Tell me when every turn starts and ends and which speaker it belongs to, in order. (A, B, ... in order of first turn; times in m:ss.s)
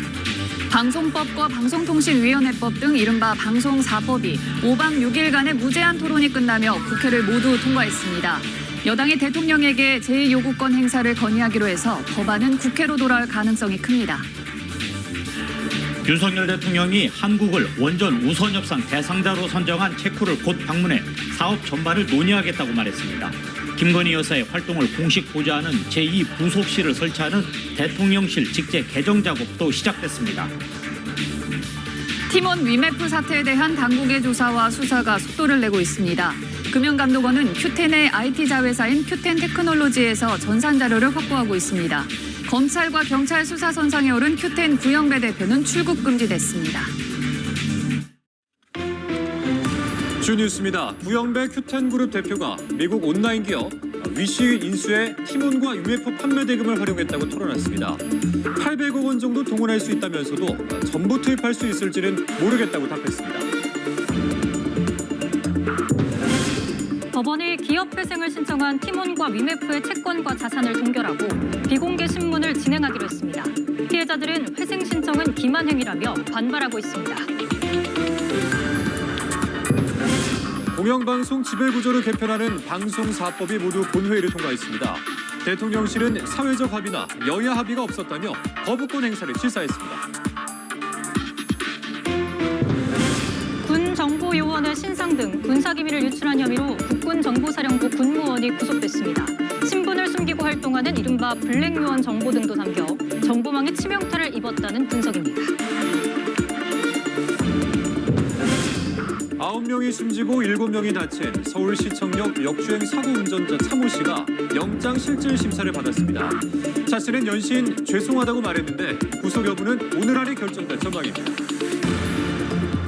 0:00.7-0:14.3 A
0:16.0-0:30.5 B
0:32.3-0:46.9 A
0:50.2-0:58.0 C
0:58.6-1:03.5 C
1:07.1-1:17.3 D
1:20.7-1:30.0 C
1:33.6-1:45.5 D
1:49.4-2:01.3 C